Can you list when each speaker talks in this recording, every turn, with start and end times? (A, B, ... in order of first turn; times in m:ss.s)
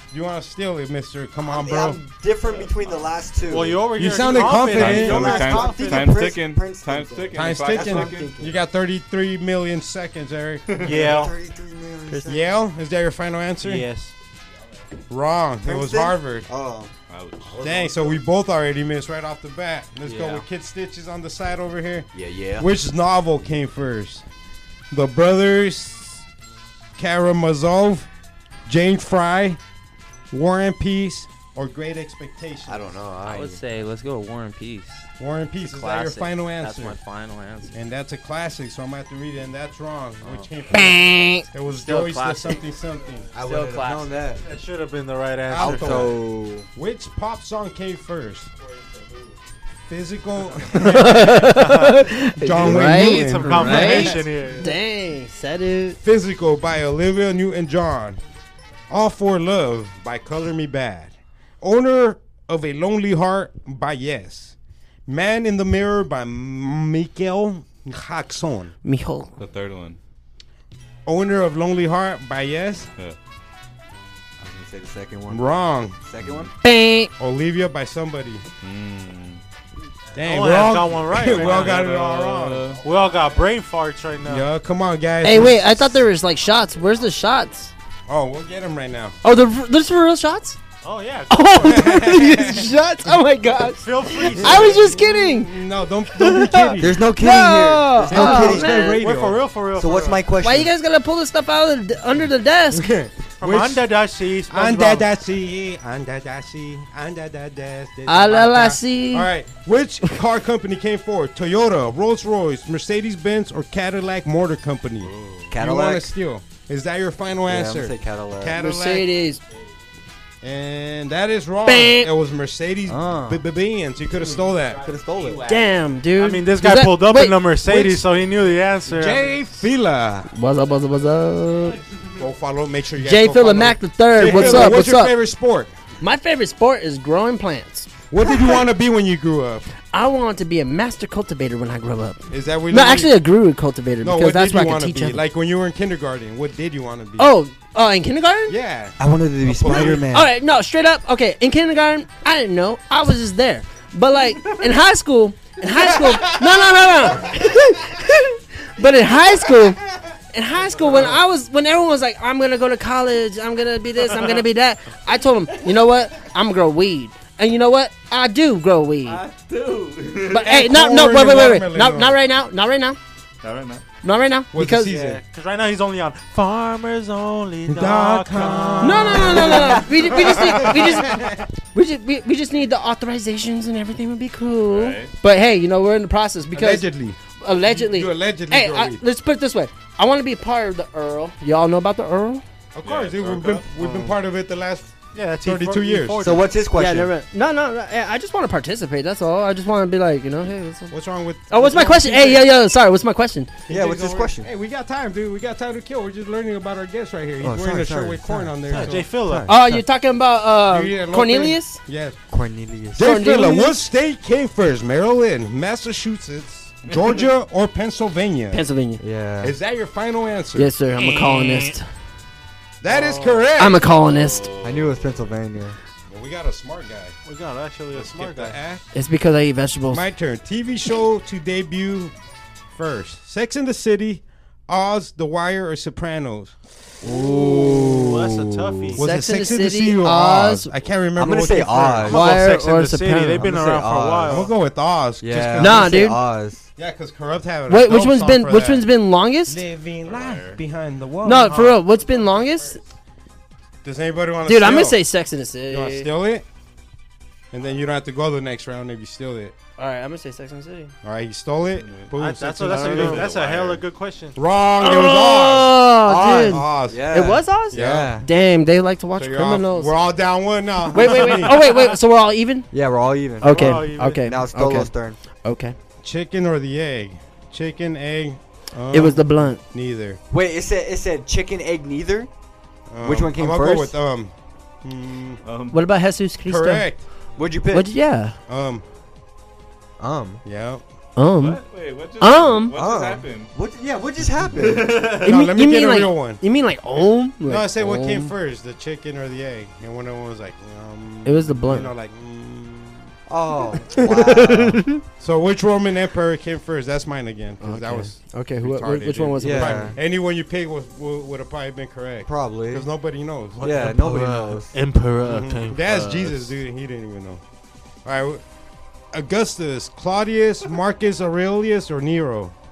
0:00.1-0:02.0 A
0:01.4-0:08.6 B
0:03.4-0:06.2 C
0:04.0-0:05.4 A
0:04.6-0:08.4 D
0:07.4-0:10.8 A
0:10.7-0:11.0 D
0:10.8-0:11.4 C
0:10.8-0:12.5 B
0:12.3-0:13.9 A
0:13.6-0:14.2 C
0:15.1-0:16.5 A
0:15.6-0:18.2 B
0:17.1-0:17.6 D
0:17.6-0:24.2 A
0:22.1-0:22.7 B
0:24.9-0:26.3 A
0:27.0-0:28.1 A
0:28.7-0:29.6 A
0:30.3-0:32.9 A
0:32.7-0:33.6 B
0:33.2-0:35.1 E
0:35.2-0:37.0 A
0:35.6-0:37.8 E
0:37.7-0:43.3 A
0:41.2-0:42.7 E
0:43.3-0:44.3 E
0:43.4-0:44.4 B
0:44.4-0:46.1 C
0:45.5-0:46.2 A
0:45.6-0:46.7 B
0:46.7-0:48.5 A
0:48.6-0:49.4 E
0:49.9-0:51.5 A
0:50.7-0:56.0 F
0:51.4-0:52.1 C
0:52.4-0:54.2 A
0:52.6-0:54.7 C
0:53.4-0:54.1 B
0:56.0-0:58.2 A
0:58.9-1:04.6 A
1:05.1-1:08.7 A
1:08.8-1:09.4 F
1:09.4-1:10.0 D
1:11.1-1:12.9 A
1:14.4-1:16.5 B
1:15.3-1:16.0 A
1:16.2-1:16.5 D
1:16.6-1:17.1 F
1:17.2-1:18.4 A
1:18.6-1:19.4 D
1:20.2-1:22.8 A
1:20.2-1:24.5 C
1:21.3-1:22.8 D
1:22.9-1:23.4 E
1:24.2-1:26.0 A
1:25.2-1:27.7 F
1:28.1-1:29.2 A
1:29.2-1:30.6 F
1:30.8-1:31.9 C
1:31.3-1:35.6 F
1:31.6-1:32.7 A
1:33.8-1:34.9 C
1:34.2-1:37.0 A
1:36.1-1:39.0 F
1:36.8-1:38.9 B
1:38.1-1:39.4 A
1:38.8-1:40.2 C
1:39.7-1:40.7 B
1:40.4-1:42.9 F
1:42.7-1:43.9 A
1:43.4-1:45.1 C
1:44.5-1:59.1 A
1:48.1-1:49.3 F
1:55.4-1:56.1 B
1:57.5-1:58.6 B
1:58.6-1:59.4 F
2:00.4-2:04.8 A
2:01.7-2:02.1 F
2:02.9-2:03.4 B
2:04.1-2:06.0 E
2:04.8-2:05.5 B
2:05.5-2:07.4 F
2:06.2-2:09.3 C
2:07.6-2:08.1 A
2:08.9-2:10.3 A
2:10.3-2:11.8 F
2:12.2-2:15.7 A
2:13.0-2:15.2 F
2:16.0-2:18.6 F
2:18.1-2:19.7 A
2:19.9-2:25.2 F
2:22.3-2:23.1 A
2:24.0-2:27.3 A
2:27.2-2:28.6 F
2:28.5-2:30.1 A
2:29.0-2:30.3 B
2:29.8-2:39.8 F
2:35.8-2:37.5 A
2:40.3-2:49.2 F
2:49.0-2:50.5 D
2:50.3-2:53.0 F
2:50.3-2:52.2 A
2:53.4-2:53.8 D
2:54.0-2:55.0 F
2:54.5-2:55.2 A
2:54.9-2:59.8 C
2:57.7-3:01.5 A
2:58.8-3:06.9 F
3:04.7-3:05.1 D
3:06.5-3:09.0 A
3:07.4-3:12.4 F
3:12.7-3:16.3 A
3:12.8-3:13.6 D
3:13.8-3:14.1 C
3:15.2-3:16.5 C
3:16.2-3:17.1 B
3:16.7-3:20.9 F
3:20.9-3:22.5 A
3:21.5-3:23.5 F
3:23.7-3:29.1 A
3:23.7-3:24.5 B
3:27.4-3:29.6 B
3:28.7-3:29.8 C
3:29.5-3:31.8 F
3:30.7-3:32.2 A
3:32.3-3:33.1 B
3:33.0-3:38.6 A
3:33.0-3:33.8 F
3:38.5-3:39.0 F
3:39.0-3:39.6 B
3:39.4-3:40.7 A
3:40.6-3:41.8 F
3:41.0-3:41.8 C
3:42.8-3:43.8 A
3:42.9-3:43.5 C
3:43.6-3:44.5 F
3:43.8-3:45.4 D
3:44.6-3:45.8 B
3:46.1-3:47.2 A
3:47.2-3:48.6 C
3:47.9-3:48.8 A
3:48.9-3:50.1 F
3:49.9-3:52.1 A
3:52.8-3:57.2 A
3:57.0-3:59.0 B
3:57.2-3:59.0 C
3:58.9-4:02.2 A
3:59.0-4:00.7 F
4:01.2-4:02.3 B
4:02.1-4:03.5 F
4:02.1-4:04.5 C
4:03.4-4:04.5 B
4:04.2-4:06.2 A
4:05.2-4:06.7 B
4:05.6-4:06.2 F
4:06.8-4:08.9 A
4:07.7-4:09.6 F
4:09.5-4:11.8 A
4:10.0-4:10.6 D
4:11.2-4:12.8 F
4:11.5-4:11.8 C
4:13.8-4:15.0 A
4:14.5-4:16.1 F
4:15.7-4:16.4 A
4:17.5-4:19.6 A
4:19.8-4:20.9 F
4:21.0-4:23.3 A
4:21.7-4:22.1 D
4:22.2-4:24.4 C
4:22.7-4:23.8 D
4:24.4-4:27.1 A
4:24.8-4:29.9 F
4:26.0-4:28.3 B
4:27.7-4:28.2 A
4:29.2-4:31.6 A
4:30.9-4:32.7 F
4:32.7-4:35.2 B
4:33.4-4:35.8 F
4:33.4-4:34.3 C
4:36.0-4:40.2 A
4:38.9-4:39.6 F
4:40.3-4:42.3 B
4:42.9-4:45.4 A
4:43.0-4:44.0 B
4:45.4-4:45.8 D
4:45.7-4:46.9 F
4:46.5-4:47.0 A
4:47.4-4:47.9 B
4:47.7-4:48.4 F
4:48.5-4:48.8 A
4:50.0-4:50.4 B
4:50.4-4:50.8 A
4:51.2-4:51.6 F
4:51.4-4:53.5 D
4:52.2-4:52.7 F
4:52.7-4:55.1 B
4:54.6-4:55.4 D
4:55.1-4:56.4 A
4:55.2-4:58.3 F
4:57.4-5:03.1 A
5:01.2-5:01.9 F
5:03.3-5:04.9 B
5:04.0-5:05.0 F
5:05.2-5:13.8 A
5:07.6-5:10.0 F
5:09.4-5:10.0 B
5:12.2-5:12.9 B
5:13.6-5:16.6 C
5:13.6-5:14.8 B
5:15.2-5:17.4 A
5:18.0-5:18.4 A
5:19.1-5:22.5 A